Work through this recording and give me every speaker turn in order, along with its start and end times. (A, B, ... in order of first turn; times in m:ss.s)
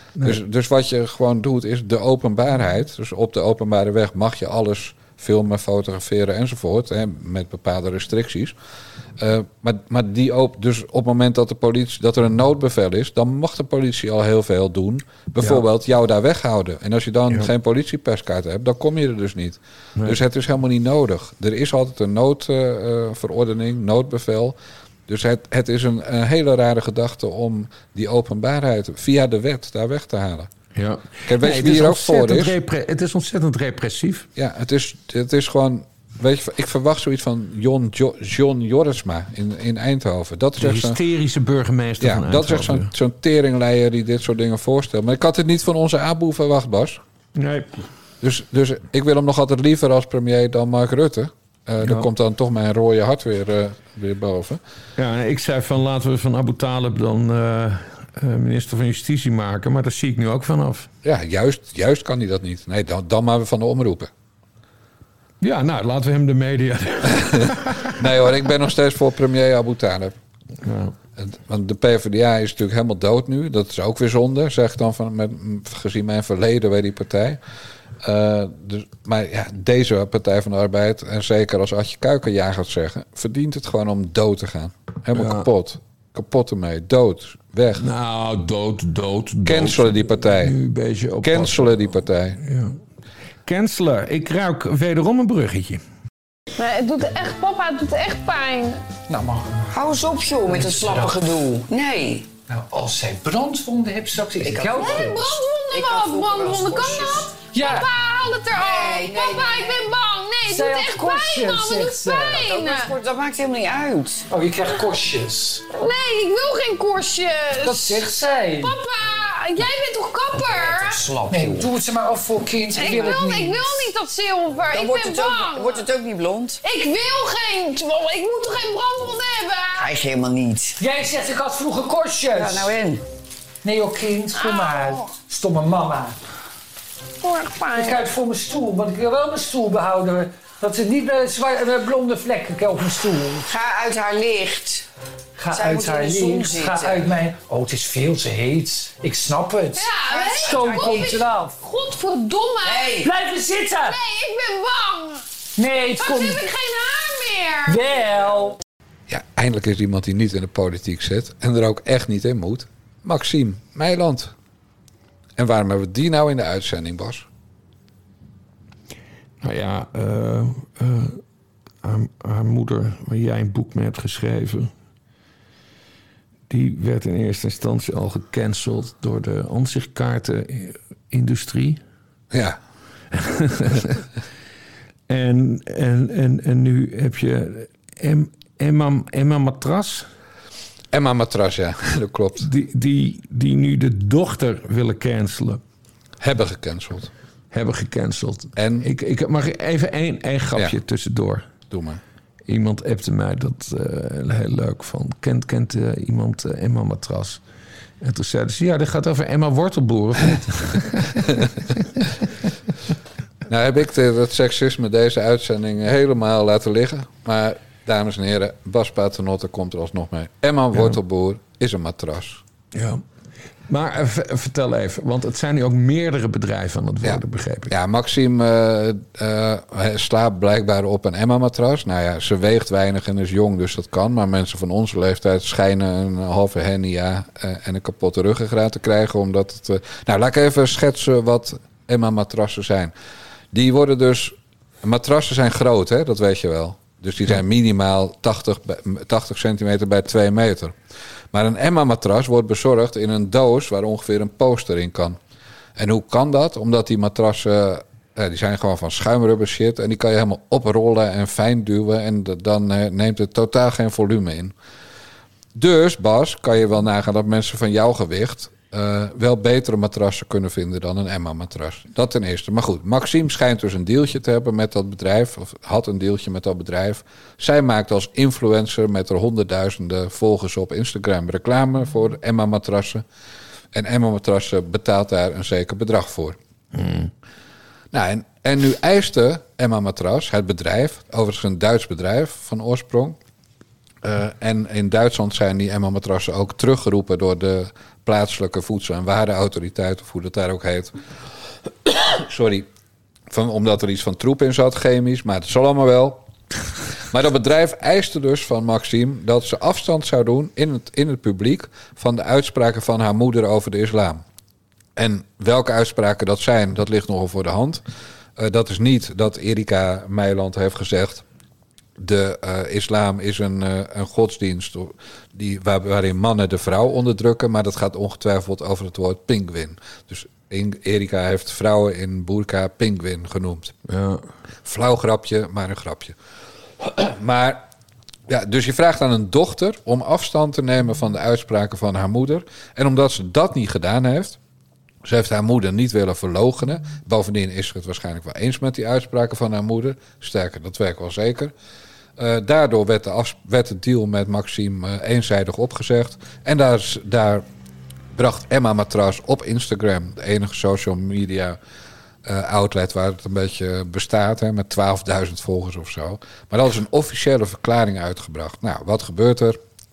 0:00.2-0:08.5 A
0:09.2-0:24.6 A
0:25.1-0:30.5 A
0:30.7-0:34.3 B
0:31.2-0:32.5 A
0:34.4-0:41.0 A
0:40.6-0:42.9 B
0:42.0-0:47.0 A
0:47.4-0:47.8 B
0:48.2-0:54.6 A
0:51.8-0:52.1 B
0:55.0-1:00.9 B
1:01.0-1:04.1 A
1:05.4-1:07.9 B
1:08.0-1:10.1 A
1:10.6-1:10.9 B
1:11.2-1:17.4 A
1:18.0-1:27.8 A
1:25.1-1:25.5 B
1:27.8-1:32.8 B
1:29.4-1:30.6 A
1:31.2-1:32.4 A
1:33.4-1:35.8 B
1:36.6-1:38.8 C
1:39.1-1:39.8 D
1:39.7-1:42.3 E
1:40.4-1:41.3 D
1:42.5-1:45.4 D
1:44.4-1:47.3 E
1:45.0-1:52.9 C
1:47.4-1:47.9 D
1:48.5-1:49.9 E
1:50.4-1:52.5 D
1:52.2-1:54.2 E
1:54.3-1:55.6 D
1:55.7-1:58.0 C
1:57.6-1:58.7 D
1:58.6-2:01.0 C
2:00.7-2:01.6 E
2:00.8-2:03.9 D
2:02.7-2:03.2 E
2:02.8-2:05.8 C
2:04.7-2:06.6 E
2:06.6-2:09.9 C
2:09.8-2:10.8 E
2:10.8-2:12.7 D
2:12.3-2:13.0 E
2:13.6-2:16.1 D
2:17.4-2:18.0 C
2:17.7-2:23.5 D
2:23.4-2:24.8 E
2:25.4-2:31.6 D
2:25.5-2:27.1 E
2:29.7-2:33.0 C
2:30.1-2:31.2 E
2:32.6-2:33.1 E
2:33.0-2:34.0 D
2:33.8-2:35.2 C
2:35.6-2:36.4 D
2:36.0-2:37.8 C
2:37.6-2:38.6 D
2:39.1-2:44.3 A
2:45.4-2:47.3 A
2:49.4-2:51.2 B
2:51.8-2:54.7 B
2:56.5-3:01.8 B
3:02.3-3:02.6 A
3:03.1-3:04.0 B
3:05.1-3:10.1 B
3:10.9-3:12.5 A
3:12.4-3:15.6 B
3:16.2-3:17.1 A
3:17.5-3:21.5 B
3:18.6-3:18.9 A
3:21.7-3:22.0 A
3:22.5-3:27.4 B
3:28.0-3:31.5 B
3:33.5-3:42.4 A
3:42.7-3:43.0 B
3:43.7-3:47.7 B
3:47.0-4:02.9 A
4:03.5-4:10.8 A
4:11.3-4:15.2 A
4:15.8-4:24.5 A
4:25.5-4:43.0 A
4:43.7-4:46.4 A
4:46.7-4:47.1 B
4:47.9-4:53.2 A
4:54.0-5:00.9 A
5:01.9-5:02.7 A
5:03.3-5:06.2 A
5:07.1-5:14.2 A
5:15.0-5:17.8 A
5:18.4-5:21.2 A
5:22.0-5:33.8 A
5:33.9-5:34.2 B
5:34.6-5:36.1 A
5:36.8-5:37.6 A
5:38.3-5:44.4 A
5:45.0-5:51.5 A
5:52.2-5:57.4 A
5:58.1-6:01.6 A
6:02.2-6:09.6 A